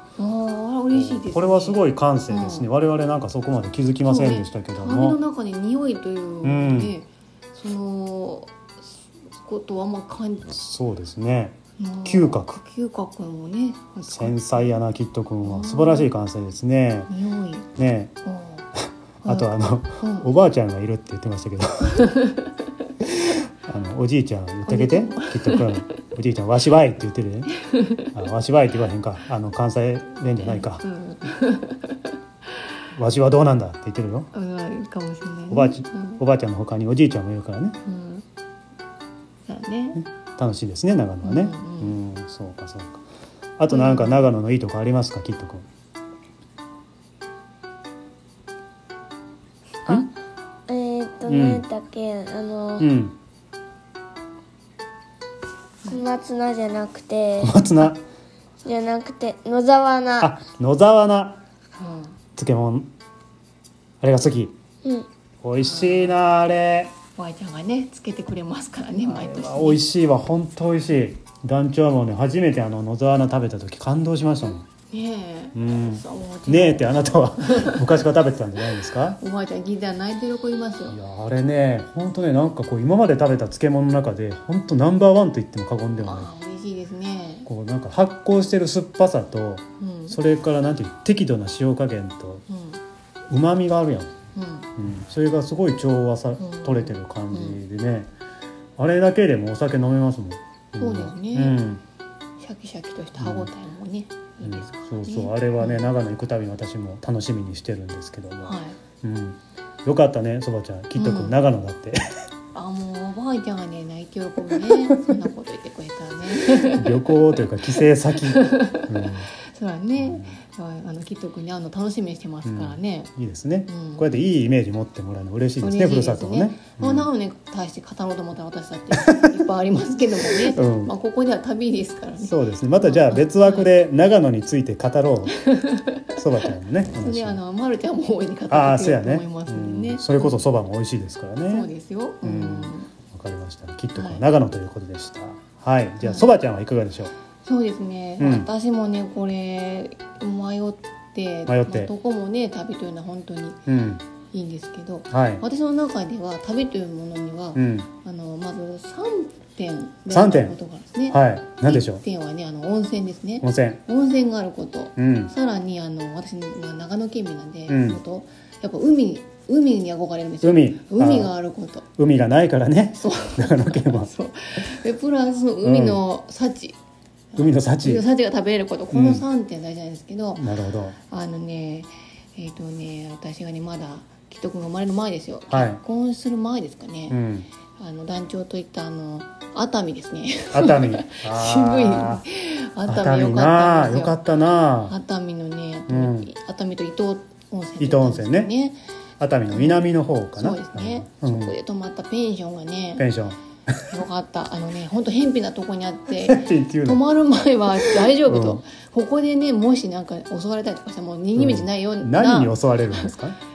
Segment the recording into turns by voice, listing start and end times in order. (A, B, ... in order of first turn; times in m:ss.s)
0:00.2-0:02.7 A
0:00.9-0:05.2 B
0:04.0-0:08.5 A
0:06.4-0:06.9 B
0:09.4-0:10.5 A
0:10.5-0:12.6 B
0:11.8-0:14.7 A
0:14.0-0:17.1 B
0:15.4-0:16.1 A
0:17.1-0:17.7 A
0:17.8-0:18.1 B
0:18.2-0:18.6 A
0:19.2-0:20.3 A
0:19.2-0:22.2 B
0:23.0-0:27.6 B
0:24.7-0:25.8 A
0:27.7-0:28.1 A
0:28.1-0:30.8 B
0:30.4-0:32.1 A
0:32.9-0:34.3 B
0:34.3-0:36.2 A
0:35.5-0:37.8 B
0:37.8-0:38.2 A
0:39.5-0:40.0 A
0:40.0-0:43.0 B
0:41.2-0:42.0 A
0:43.6-0:45.6 B
0:43.7-0:44.3 A
0:50.7-0:52.9 C
0:51.3-0:51.6 B
0:52.8-0:53.2 B
0:55.8-0:57.6 C
0:57.4-0:58.0 B
0:58.6-1:00.3 C
1:00.2-1:01.4 B
1:01.8-1:02.1 A
1:02.4-1:02.9 B
1:04.0-1:04.5 B
1:05.4-1:06.9 B
1:05.6-1:06.1 A
1:07.2-1:09.8 A
1:09.0-1:14.6 B
1:14.9-1:18.0 A
1:15.5-1:19.2 B
1:19.2-1:21.0 A
1:20.9-1:26.3 B
1:26.0-1:27.5 A
1:27.4-1:32.4 B
1:29.8-1:30.2 A
1:32.5-1:32.8 A
1:33.3-1:34.1 B
1:34.3-1:34.7 A
1:34.8-1:38.1 B
1:36.4-1:37.6 A
1:38.8-1:41.8 B
1:40.8-1:41.6 A
1:42.4-1:45.9 A
1:43.2-1:43.5 B
1:44.4-1:52.0 B
1:48.4-1:48.8 A
1:51.0-1:51.4 A
1:52.5-1:57.2 A
1:56.6-1:59.3 B
1:57.7-2:03.1 A
2:00.0-2:00.4 B
2:02.4-2:07.1 B
2:03.7-2:04.1 A
2:05.6-2:13.7 A
2:10.5-2:10.9 B
2:12.2-2:15.4 B
2:15.4-2:16.2 A
2:16.1-2:17.4 B
2:16.9-2:20.4 A
2:18.5-2:21.7 B
2:21.5-2:22.9 A
2:22.2-2:27.1 B
2:23.9-2:24.2 A
2:26.0-2:26.3 A
2:27.4-2:33.6 A
2:28.2-2:28.5 B
2:31.5-2:31.9 B
2:33.7-2:34.0 B
2:34.3-2:51.9 A
2:35.1-2:35.4 B
2:37.6-2:37.9 B
2:40.1-2:40.6 B
2:41.1-2:42.0 B
2:43.4-2:43.8 B
2:45.0-2:45.3 B
2:47.7-2:48.0 B
2:50.4-2:51.3 B
2:52.0-2:54.1 B
2:53.0-2:56.8 A
2:55.6-2:56.0 B
2:57.3-3:00.4 A
2:57.4-2:58.0 B
2:58.9-2:59.2 B
3:00.4-3:00.9 B
3:01.0-3:07.2 A
3:05.5-3:05.8 B
3:07.1-3:07.5 B
3:07.8-3:14.2 A
3:10.5-3:12.2 B
3:12.8-3:14.9 B
3:14.9-3:18.8 A
3:15.9-3:16.3 B
3:17.8-3:18.5 B
3:19.2-3:21.5 B
3:19.5-3:23.0 A
3:23.0-3:23.9 B
3:23.9-3:33.2 A
3:26.2-3:27.0 B
3:27.9-3:28.6 B
3:31.4-3:33.4 B